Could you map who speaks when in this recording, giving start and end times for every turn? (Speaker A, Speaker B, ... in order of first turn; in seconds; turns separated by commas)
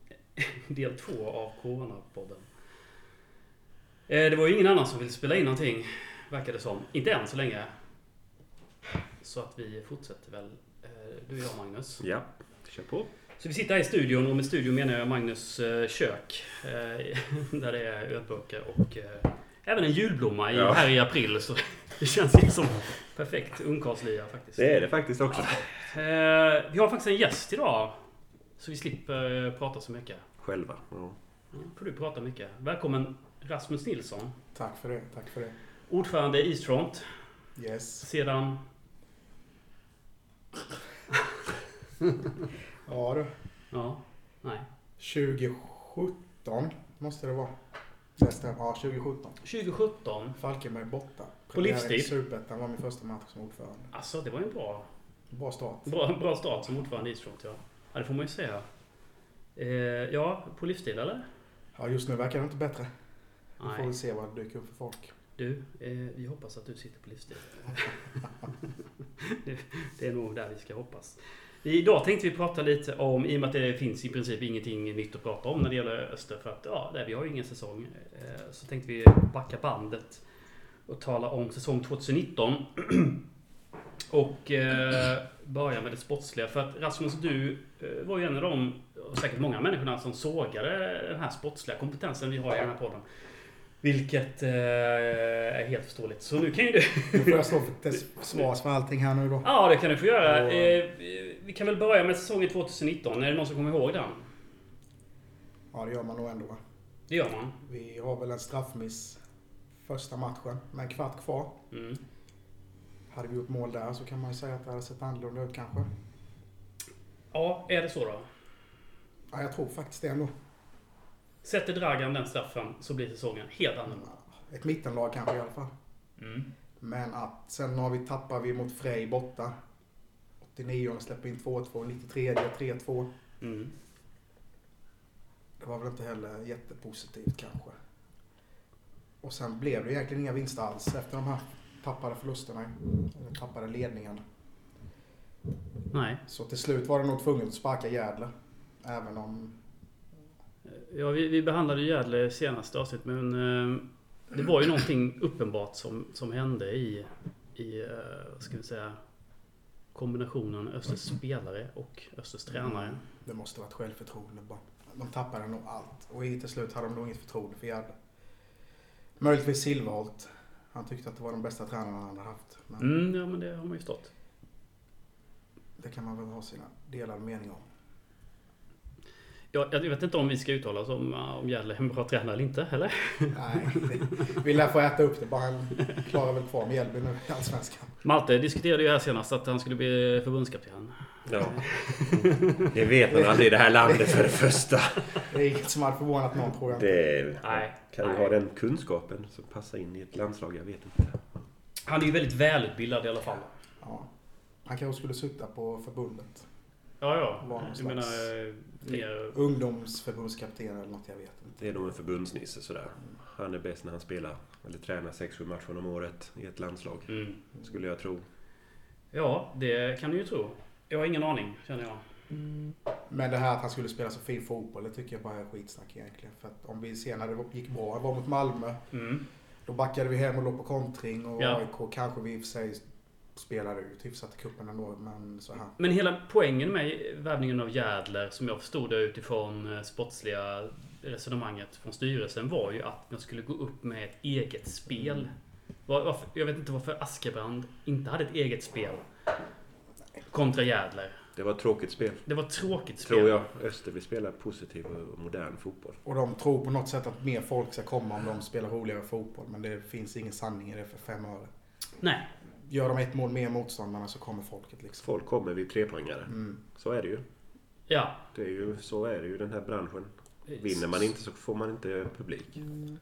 Speaker A: 0.3-2.5, Speaker A: 4.1-7.7, Speaker A: 9.2-12.0, Speaker B: 12.0-13.1, Speaker A: 13.4-24.6, Speaker B: 20.5-20.9, Speaker B: 24.6-25.7, Speaker A: 25.3-28.0, Speaker A: 28.6-30.2, Speaker B: 30.4-31.2, Speaker A: 31.5-34.4, Speaker C: 34.5-35.5, Speaker A: 35.9-37.2, Speaker C: 37.5-38.1, Speaker A: 38.0-38.6, Speaker C: 42.8-43.3, Speaker A: 43.7-44.7, Speaker C: 45.0-47.5, Speaker C: 48.1-49.4, Speaker A: 49.4-50.4, Speaker C: 50.4-53.9, Speaker A: 51.5-52.1, Speaker A: 53.9-54.9, Speaker C: 55.3-55.9, Speaker A: 55.9-58.7, Speaker A: 59.5-61.2, Speaker C: 61.7-62.9, Speaker A: 63.6-63.9, Speaker C: 63.6-65.1, Speaker A: 65.4-68.2, Speaker A: 69.2-80.2, Speaker A: 80.9-83.2, Speaker A: 84.1-93.1, Speaker A: 93.8-97.5, Speaker C: 97.1-99.5, Speaker A: 99.4-104.3, Speaker C: 100.2-100.8, Speaker C: 105.7-106.6, Speaker A: 107.1-107.5, Speaker C: 107.6-109.2, Speaker C: 109.8-111.5, Speaker A: 111.7-112.0, Speaker C: 113.1-115.9, Speaker A: 117.3-118.3, Speaker C: 119.3-120.3, Speaker A: 121.4-124.1, Speaker C: 124.0-125.7, Speaker A: 126.2-126.5, Speaker C: 126.8-129.5, Speaker C: 130.4-133.1, Speaker A: 133.4-133.7, Speaker C: 135.6-137.8, Speaker C: 139.2-144.2, Speaker A: 145.9-146.2, Speaker C: 146.3-149.6, Speaker A: 150.7-159.0, Speaker A: 159.9-163.0, Speaker C: 162.5-167.9, Speaker C: 169.2-172.9, Speaker A: 172.8-174.1, Speaker C: 175.8-177.7, Speaker A: 179.5-184.1, Speaker C: 183.3-187.9, Speaker A: 188.0-192.7, Speaker B: 191.3-191.6, Speaker B: 192.1-195.3, Speaker C: 193.1-194.3, Speaker C: 195.3-196.9, Speaker B: 196.7-201.4, Speaker A: 197.4-198.3, Speaker A: 201.9-203.5, Speaker C: 203.8-204.1, Speaker C: 204.7-206.4, Speaker A: 207.0-209.4, Speaker C: 207.4-208.3, Speaker C: 208.8-211.8, Speaker B: 211.6-218.2, Speaker A: 217.1-217.4, Speaker A: 219.1-222.0, Speaker C: 223.1-228.8, Speaker A: 228.9-229.2, Speaker C: 229.7-232.8, Speaker C: 233.3-235.7, Speaker A: 235.8-245.3, Speaker C: 245.0-245.2, Speaker A: 245.9-249.1, Speaker A: 250.3-251.2, Speaker B: 251.3-252.2, Speaker A: 252.2-253.4, Speaker B: 253.0-256.0, Speaker C: 256.0-261.5, Speaker A: 262.0-262.3, Speaker C: 262.6-265.1, Speaker B: 265.0-267.2, Speaker C: 266.3-266.6, Speaker A: 267.9-268.2, Speaker B: 268.3-272.7